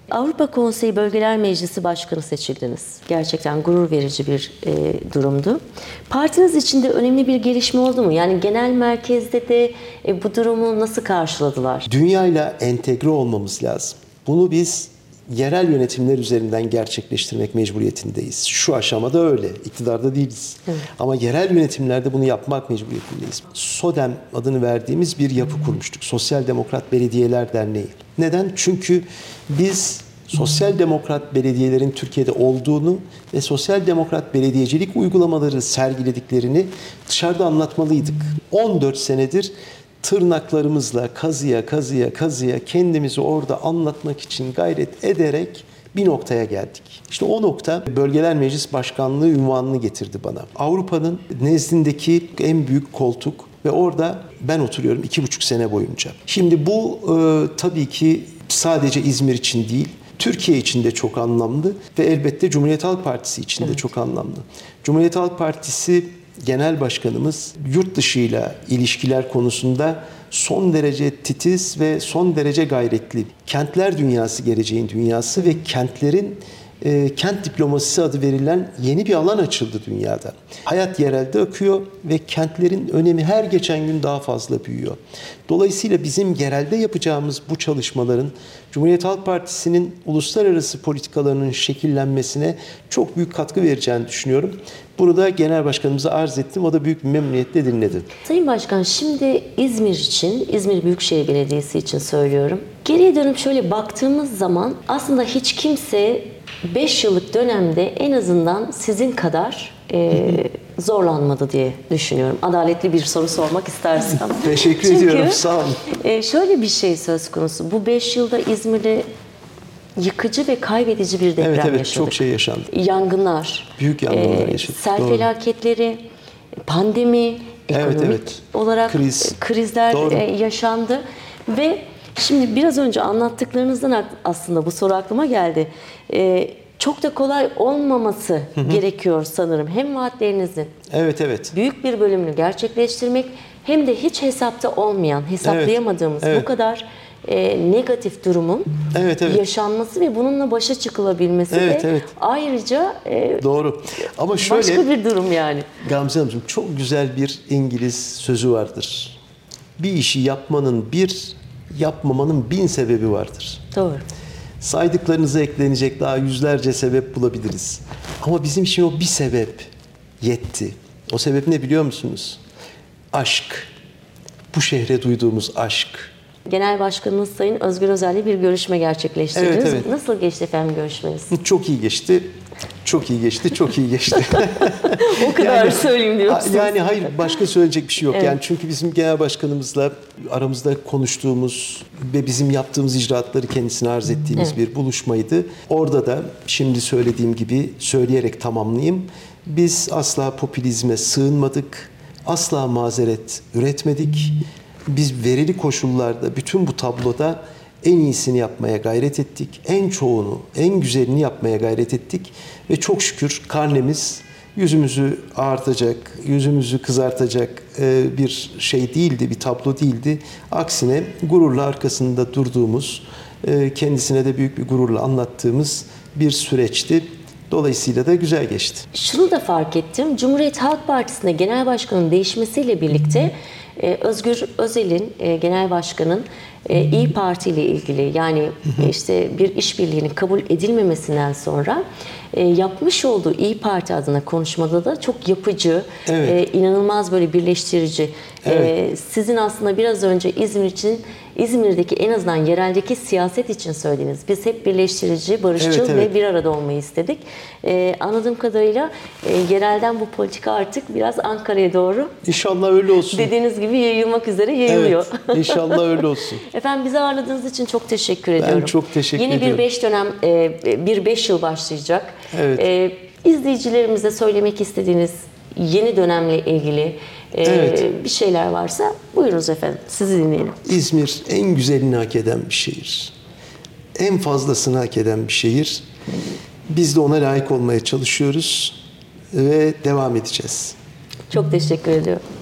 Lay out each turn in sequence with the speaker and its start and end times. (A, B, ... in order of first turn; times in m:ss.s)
0:00.1-0:11.9 A
0:11.9-1:38.1 B
1:38.2-1:59.1 A
1:54.3-1:55.8 B
2:00.0-2:02.2 A
2:01.4-2:02.7 B
2:02.7-2:06.0 A
2:03.8-2:05.3 B
2:06.7-2:20.7 A
2:07.7-2:09.3 B
2:09.9-2:10.2 B
2:18.6-2:18.8 B
2:20.9-2:21.5 B
2:21.5-2:33.4 A
2:25.4-2:26.5 B
2:28.9-2:29.4 B
2:31.5-2:32.1 B
2:33.4-2:34.9 B
2:34.4-2:35.7 A
2:35.8-2:39.2 B
2:39.8-2:43.6 B
2:43.7-2:44.1 A
2:44.6-2:49.7 B
2:50.2-2:52.4 B
2:53.1-2:53.7 B
2:54.5-2:56.1 B
2:56.5-3:01.3 A
2:59.4-2:59.9 B
3:01.3-3:02.3 B
3:02.8-3:24.4 B
3:05.0-3:07.3 A
3:08.1-3:08.4 A
3:24.9-3:48.9 B
3:48.9-4:22.2 A
4:06.1-4:06.4 B
4:08.4-4:08.7 B
4:15.6-4:16.1 B
4:22.2-4:23.3 B
4:23.1-4:40.6 A
4:24.7-4:26.4 B
4:28.4-4:29.6 B
4:32.3-4:32.7 B
4:37.4-4:37.8 B
4:40.6-4:43.1 B
4:44.0-4:45.8 B
4:46.7-4:48.8 B
4:49.3-4:50.8 B
4:51.3-4:52.2 A